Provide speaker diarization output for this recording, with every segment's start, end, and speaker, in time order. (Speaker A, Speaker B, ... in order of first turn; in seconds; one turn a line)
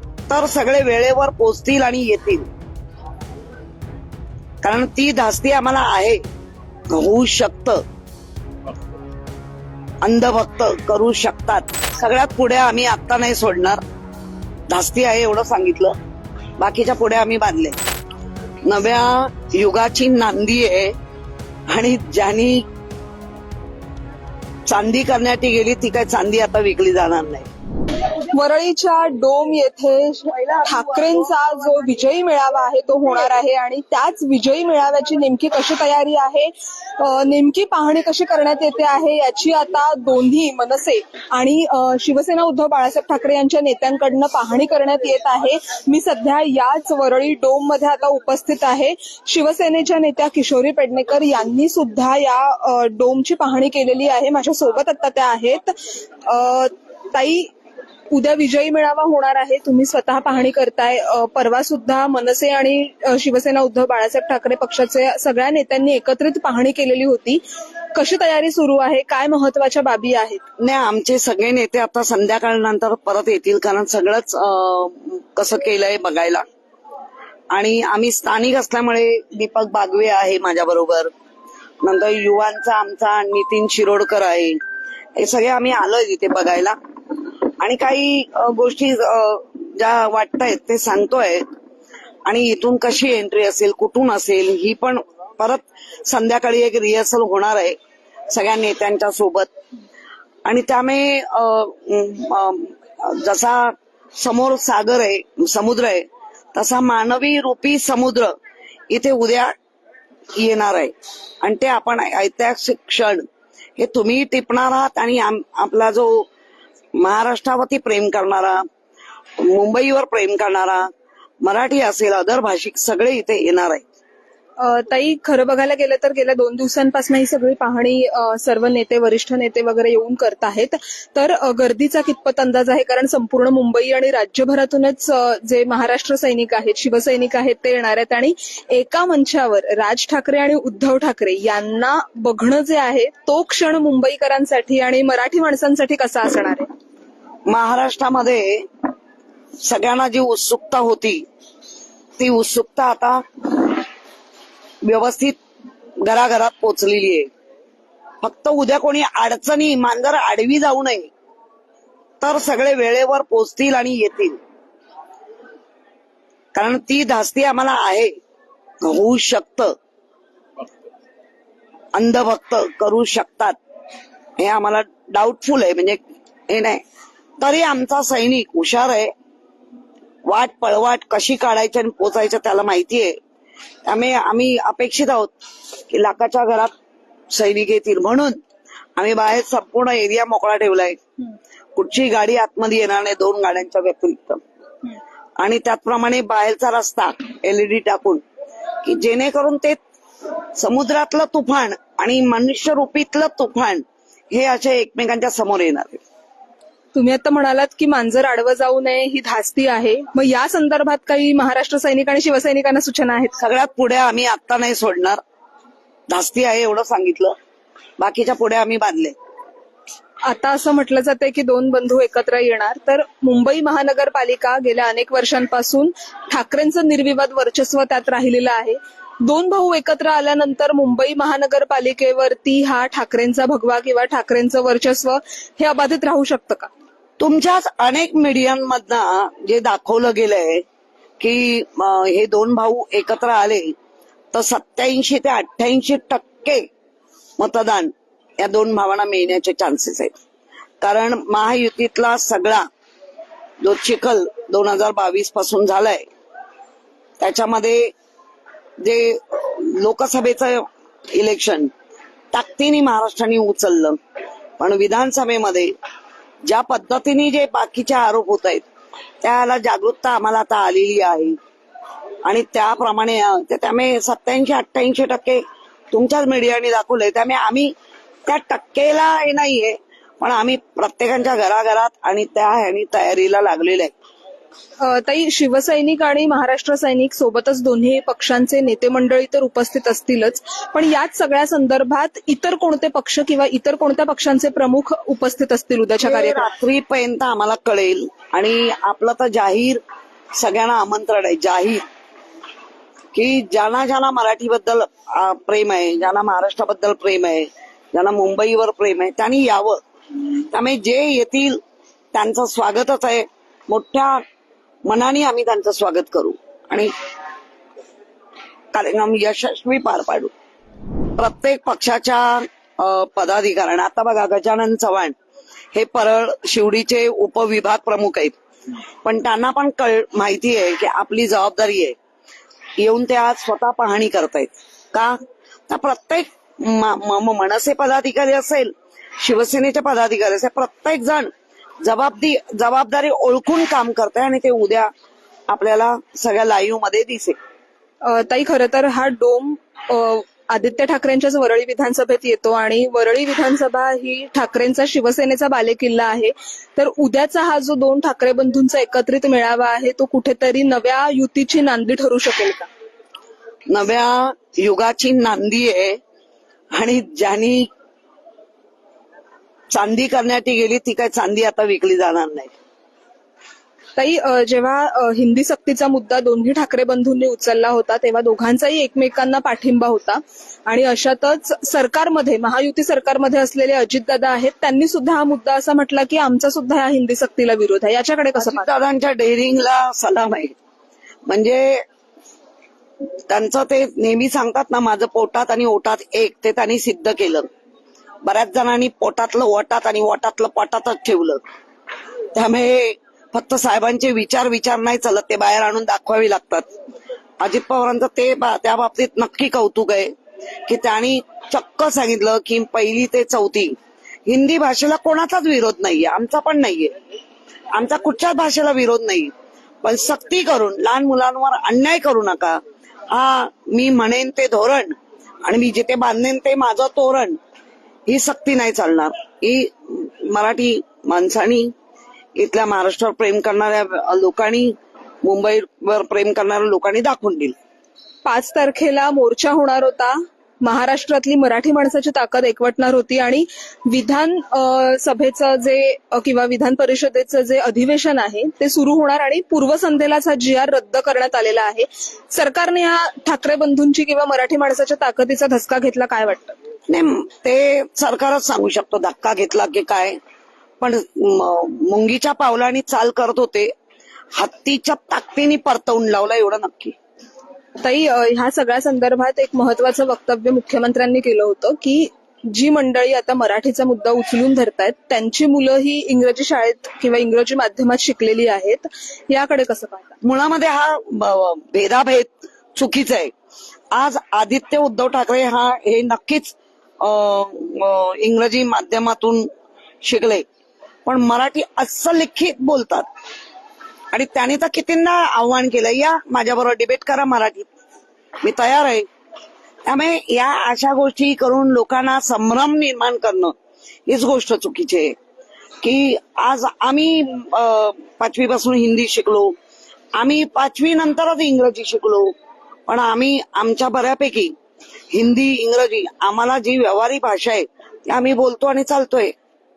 Speaker A: 0.3-2.5
Speaker A: 4.6-6.2
Speaker A: 6.9-7.8
Speaker A: 10.0-13.8
Speaker A: 14.7-15.9
Speaker A: 16.6-17.8
Speaker A: 18.6-20.9
Speaker A: 21.7-22.7
Speaker A: 24.7-27.5
Speaker B: 28.2-57.5
Speaker B: 58.1-67.4
Speaker B: 67.9-70.4
Speaker A: 70.6-76.4
Speaker A: 77.5-81.1
Speaker A: 81.8-84.6
Speaker A: 85.2-86.8
Speaker A: 87.6-91.5
Speaker A: 92.2-97.8
Speaker A: 98.3-99.5
Speaker A: 100.4-108.3
Speaker A: 108.9-109.5
Speaker A: 110.3-113.2
Speaker A: 113.8-116.3
Speaker A: 117.0-118.6
Speaker A: 119.4-120.9
Speaker A: 121.4-123.8
Speaker B: 124.6-146.7
Speaker A: 147.5-148.7
Speaker A: 149.6-151.2
Speaker A: 152.2-153.8
Speaker A: 154.8-155.4
Speaker A: 156.0-157.3
Speaker A: 158.2-161.1
Speaker A: 162.2-164.4
Speaker A: 166.5-168.1
Speaker A: 168.8-169.7
Speaker A: 171.9-173.6
Speaker A: 174.4-176.8
Speaker A: 177.4-179.1
Speaker A: 180.3-183.2
Speaker A: 183.8-185.3
Speaker A: 185.9-186.7
Speaker A: 187.3-188.4
Speaker A: 189.0-191.0
Speaker A: 191.7-194.4
Speaker A: 195.4-198.2
Speaker A: 198.8-199.8
Speaker A: 200.5-206.0
Speaker B: 206.9-213.4
Speaker A: 213.4-215.2
Speaker A: 216.1-217.3
Speaker A: 218.0-219.1
Speaker B: 220.2-236.7
Speaker A: 237.2-240.6
Speaker A: 241.2-243.7
Speaker A: 244.3-246.7
Speaker A: 247.4-250.2
Speaker A: 250.8-252.7
Speaker A: 253.6-256.1
Speaker A: 257.2-257.9
Speaker A: 258.8-261.7
Speaker A: 262.3-264.0
Speaker A: 264.6-265.7
Speaker A: 266.4-268.6
Speaker A: 269.2-271.4
Speaker A: 272.2-277.7
Speaker A: 278.2-283.9
Speaker B: 284.8-296.5
Speaker A: 296.0-299.8
Speaker A: 300.4-301.8
Speaker A: 303.1-311.6
Speaker A: 312.1-314.2
Speaker A: 314.9-316.9
Speaker A: 318.7-320.3
Speaker A: 321.2-325.1
Speaker A: 325.7-328.3
Speaker A: 329.0-331.9
Speaker A: 332.8-341.3
Speaker A: 341.8-344.9
Speaker A: 345.5-347.4
Speaker B: 348.0-362.7
Speaker A: 363.7-366.0
Speaker A: 366.7-367.7
Speaker A: 369.7-372.5
Speaker B: 374.0-388.7
Speaker A: 388.4-390.5
Speaker A: 391.3-391.8
Speaker A: 393.3-397.5
Speaker A: 398.2-401.4
Speaker A: 402.3-406.7
Speaker A: 407.4-410.1
Speaker A: 410.7-413.8
Speaker A: 414.3-416.9
Speaker A: 417.7-419.3
Speaker A: 419.8-427.4
Speaker A: 428.1-431.7
Speaker A: 432.4-437.6
Speaker B: 438.2-456.6
Speaker A: 456.9-460.2
Speaker A: 460.8-463.7
Speaker A: 464.3-466.9
Speaker B: 467.8-480.1
Speaker A: 480.2-483.3
Speaker A: 483.9-489.5
Speaker A: 490.0-490.4
Speaker A: 491.1-493.1
Speaker A: 494.1-497.7
Speaker A: 498.4-499.1
Speaker A: 499.9-503.5
Speaker A: 504.1-505.1
Speaker A: 505.8-509.5
Speaker A: 510.1-512.3
Speaker A: 512.9-514.5
Speaker A: 515.1-519.3